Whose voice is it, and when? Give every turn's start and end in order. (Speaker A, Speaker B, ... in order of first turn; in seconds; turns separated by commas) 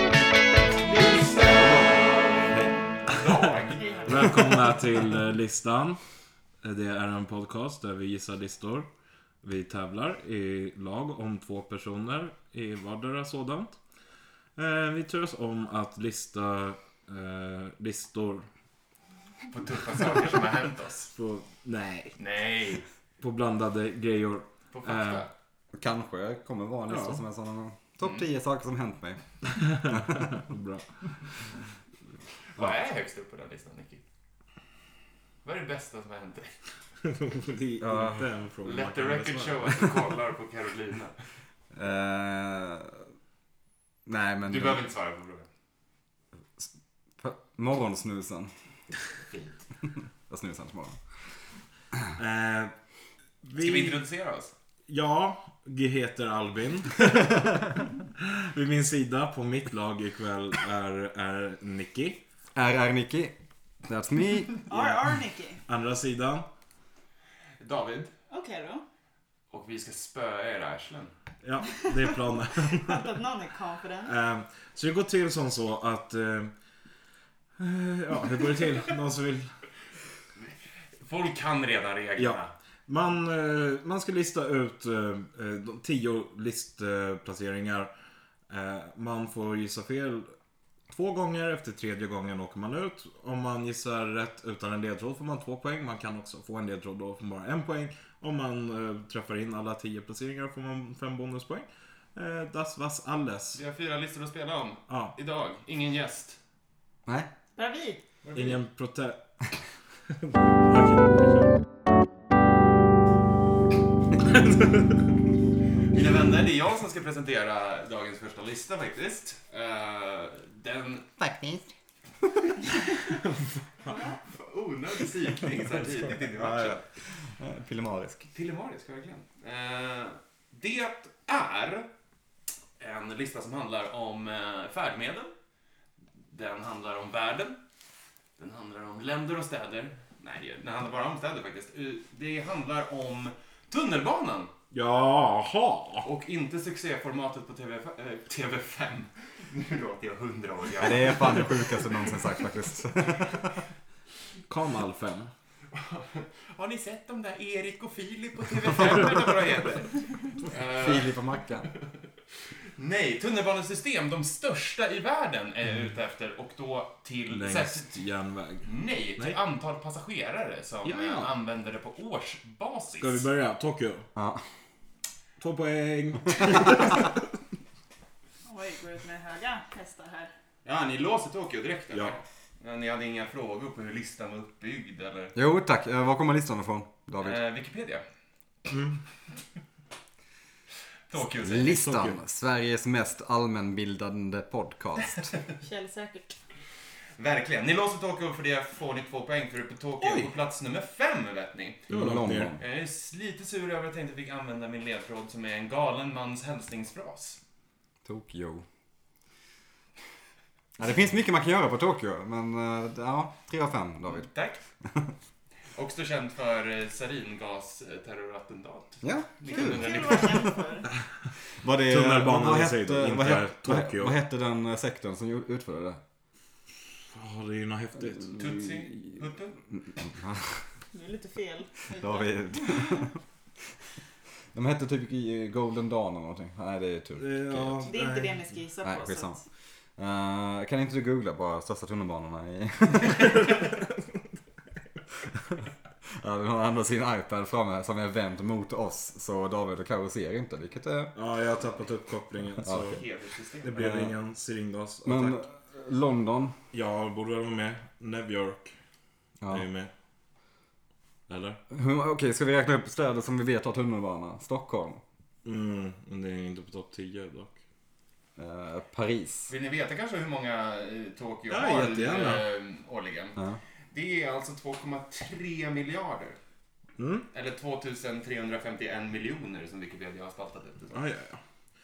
Speaker A: 0.8-4.4, Speaker B: 3.8-4.4, Speaker C: 4.0-6.0, Speaker C: 6.6-8.9, Speaker C: 9.4-13.8, Speaker C: 14.6-18.5, Speaker A: 19.5-21.1, Speaker C: 21.1-22.2, Speaker A: 22.2-22.8, Speaker C: 23.2-25.3, Speaker A: 24.7-25.3, Speaker D: 25.7-29.2, Speaker C: 26.9-27.2, Speaker C: 29.5-31.5, Speaker D: 29.8-30.3, Speaker A: 32.5-34.0, Speaker A: 35.4-36.5, Speaker C: 37.0-39.8, Speaker D: 37.8-38.3, Speaker A: 38.6-41.2, Speaker D: 41.7-43.0, Speaker D: 44.0-44.8, Speaker A: 44.5-45.5, Speaker D: 46.6-48.5, Speaker A: 49.3-49.6, Speaker D: 50.3-51.0, Speaker C: 52.2-52.7, Speaker C: 53.4-54.0, Speaker A: 53.6-54.5, Speaker C: 54.9-62.2, Speaker D: 62.5-63.3, Speaker D: 63.9-64.6, Speaker B: 64.7-65.6, Speaker C: 65.7-66.5, Speaker A: 67.6-68.1, Speaker B: 68.3-68.8, Speaker A: 69.5-71.1, Speaker C: 71.4-73.1, Speaker B: 72.8-74.1, Speaker C: 74.0-76.5, Speaker C: 77.6-79.5, Speaker A: 81.0-82.5, Speaker C: 82.2-87.9, Speaker C: 88.5-90.3, Speaker C: 90.9-103.6, Speaker A: 103.5-106.4, Speaker C: 104.9-105.2, Speaker B: 107.5-108.0, Speaker A: 108.2-108.6, Speaker C: 108.3-109.2, Speaker C: 110.6-111.5, Speaker C: 114.3-114.7, Speaker A: 115.9-121.1, Speaker D: 121.2-121.7, Speaker C: 123.2-124.0, Speaker B: 123.9-124.2, Speaker A: 124.2-126.8, Speaker D: 125.9-128.3, Speaker A: 128.3-131.9, Speaker A: 132.8-135.3, Speaker A: 136.2-137.6, Speaker A: 138.4-144.5, Speaker C: 144.7-146.1, Speaker A: 146.0-152.4, Speaker D: 150.8-153.6, Speaker C: 154.5-155.3, Speaker A: 155.7-161.1, Speaker D: 160.7-161.7, Speaker A: 162.8-167.9, Speaker C: 167.3-169.4, Speaker A: 168.6-173.2, Speaker C: 170.8-171.3, Speaker C: 172.9-174.1, Speaker D: 174.1-174.4, Speaker C: 175.4-177.2, Speaker B: 178.4-180.3, Speaker A: 180.6-185.3, Speaker C: 181.9-182.2, Speaker D: 185.3-187.4, Speaker A: 187.2-188.0, Speaker C: 188.7-189.0, Speaker A: 191.1-191.8, Speaker D: 191.4-195.3, Speaker C: 191.7-192.2, Speaker B: 195.6-196.3, Speaker A: 197.2-201.9, Speaker C: 200.0-200.3, Speaker C: 201.9-202.5, Speaker D: 201.9-202.6, Speaker A: 202.6-207.4, Speaker D: 208.0-208.6, Speaker D: 210.8-214.3, Speaker A: 214.1-214.6, Speaker A: 215.7-220.4, Speaker D: 219.0-220.8, Speaker B: 219.4-220.9, Speaker D: 221.5-226.0, Speaker C: 221.9-224.2, Speaker C: 227.1-228.4, Speaker D: 228.2-230.7, Speaker A: 228.3-229.6, Speaker B: 230.9-233.1, Speaker D: 231.9-233.2, Speaker D: 234.5-237.8, Speaker C: 237.2-238.5, Speaker B: 237.8-239.3, Speaker D: 238.8-239.4, Speaker D: 239.9-243.5, Speaker D: 245.3-245.6, Speaker D: 246.2-251.1, Speaker C: 251.1-253.0, Speaker D: 252.6-253.0, Speaker A: 252.8-253.7, Speaker C: 253.6-255.4, Speaker D: 253.8-254.2, Speaker D: 255.0-256.6, Speaker C: 256.7-258.7, Speaker C: 259.5-259.9, Speaker C: 261.3-261.6, Speaker D: 261.7-265.0, Speaker C: 265.4-267.6, Speaker D: 268.4-269.5, Speaker A: 269.5-273.4, Speaker C: 271.5-272.4, Speaker A: 273.9-276.4, Speaker C: 277.0-277.3, Speaker A: 277.3-280.9, Speaker C: 280.9-281.4